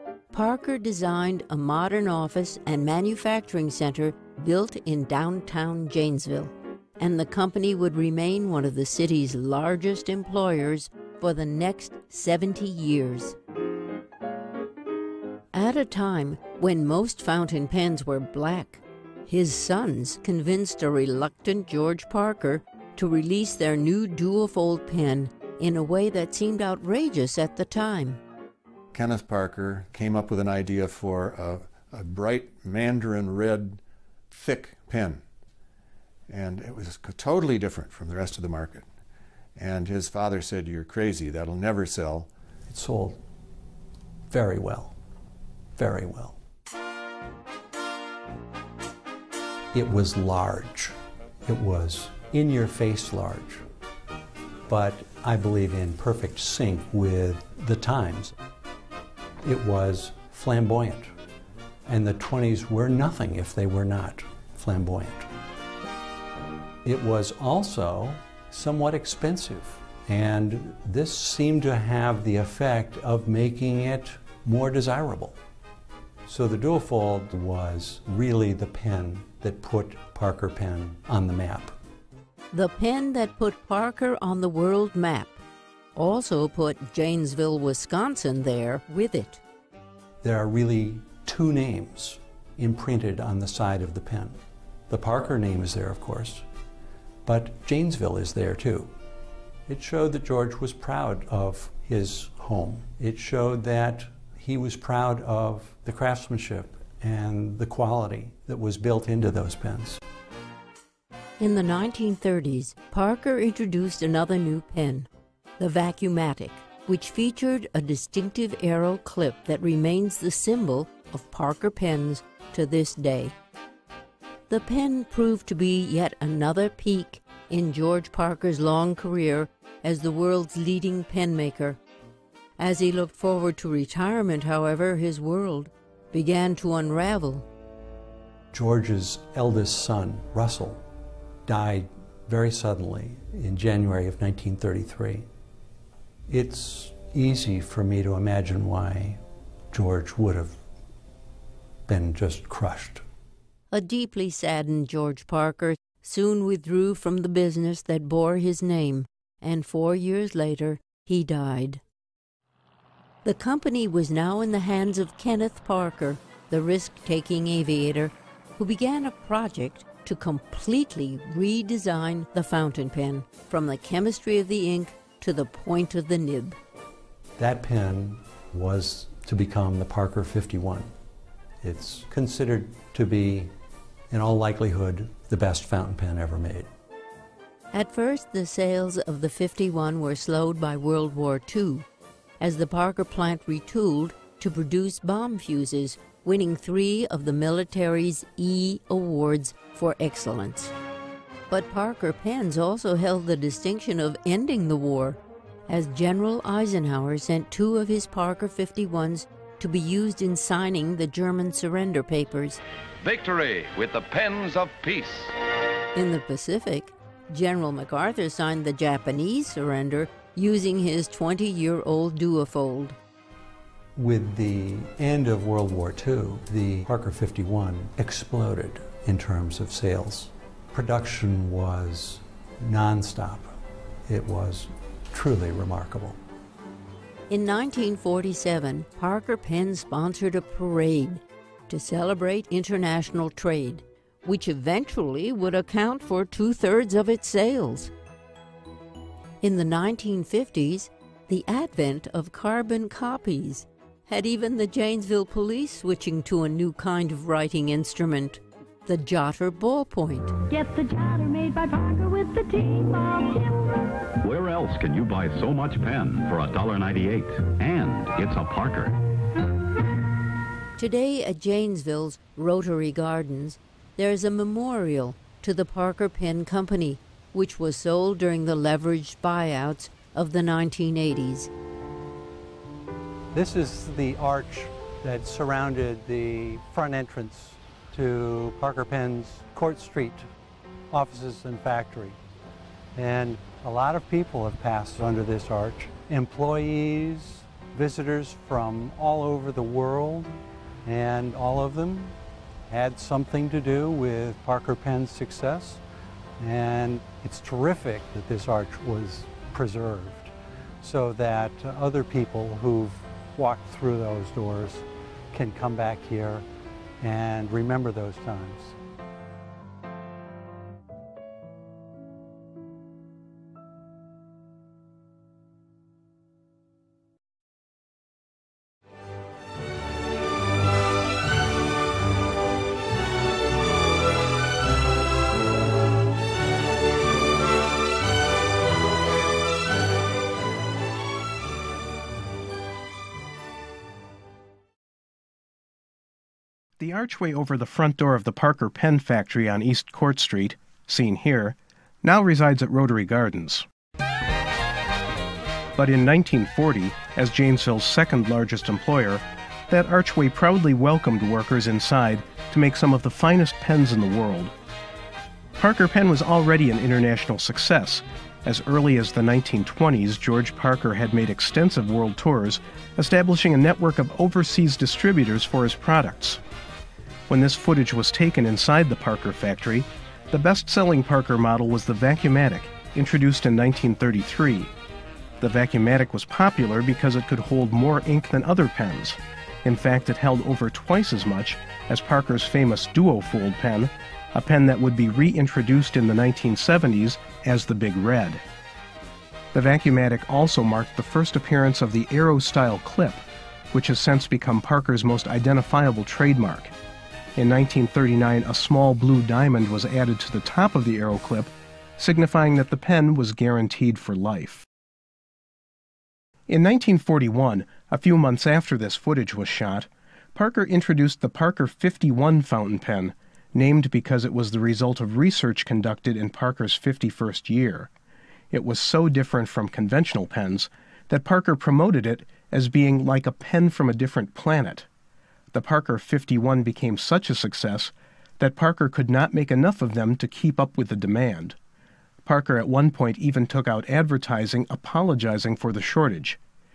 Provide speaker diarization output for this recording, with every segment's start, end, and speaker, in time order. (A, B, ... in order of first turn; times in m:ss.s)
0:00.3-0:13.4 A
0:15.5-0:28.2 A
0:28.9-0:35.2 B
0:36.3-0:38.9 B
0:39.6-0:42.3 B
0:42.7-0:43.2 C
0:44.3-0:45.0 C
0:45.7-0:46.4 C
0:49.7-0:53.6 C
0:54.7-0:58.3 C
0:59.4-1:01.1 C
1:01.8-1:05.3 C
1:06.8-1:15.4 C
1:16.3-1:21.8 C
1:22.5-1:25.4 A
1:26.0-1:29.4 A
1:30.2-1:36.4 C
1:37.2-1:38.9 C
1:39.7-1:50.0 C
1:51.4-1:55.1 A
1:55.6-2:03.3 A
2:04.5-2:11.8 A
2:12.6-2:17.4 A
2:18.5-2:20.8 C
2:21.4-2:25.3 C
2:26.3-2:29.2 C
2:29.7-2:30.6 C
2:31.9-2:33.0 C
2:33.7-2:41.8 A
2:43.2-2:56.6 A
2:57.4-3:00.9 C
3:01.6-3:03.5 C
3:04.1-3:06.7 C
3:07.7-3:11.8 A
3:12.4-3:20.7 A
3:21.5-3:32.6 A
3:33.0-3:35.3 D
3:35.9-3:43.0 A
3:44.0-3:56.2 C
3:57.3-4:07.9 A
4:09.4-4:20.3 A
4:20.5-4:23.6 E
4:24.2-4:29.0 F
4:30.8-4:41.5 A
4:43.3-4:50.3 C
4:50.9-4:52.2 C
4:53.0-5:02.2 C
5:02.7-5:05.8 C
5:06.4-5:16.4 C
5:17.0-5:18.8 C
5:46.8-5:53.6 G
5:55.8-6:04.5 G
6:05.6-6:16.4 G
6:17.3-6:24.7 G
6:25.4-6:38.4 G
6:39.5-6:43.2 G
6:43.7-6:46.7 G
6:47.4-6:54.6 G
6:56.5-7:07.9 G
7:08.5-7:14.9 G
7:15.5-7:21.6 G
7:22.2-7:26.4 G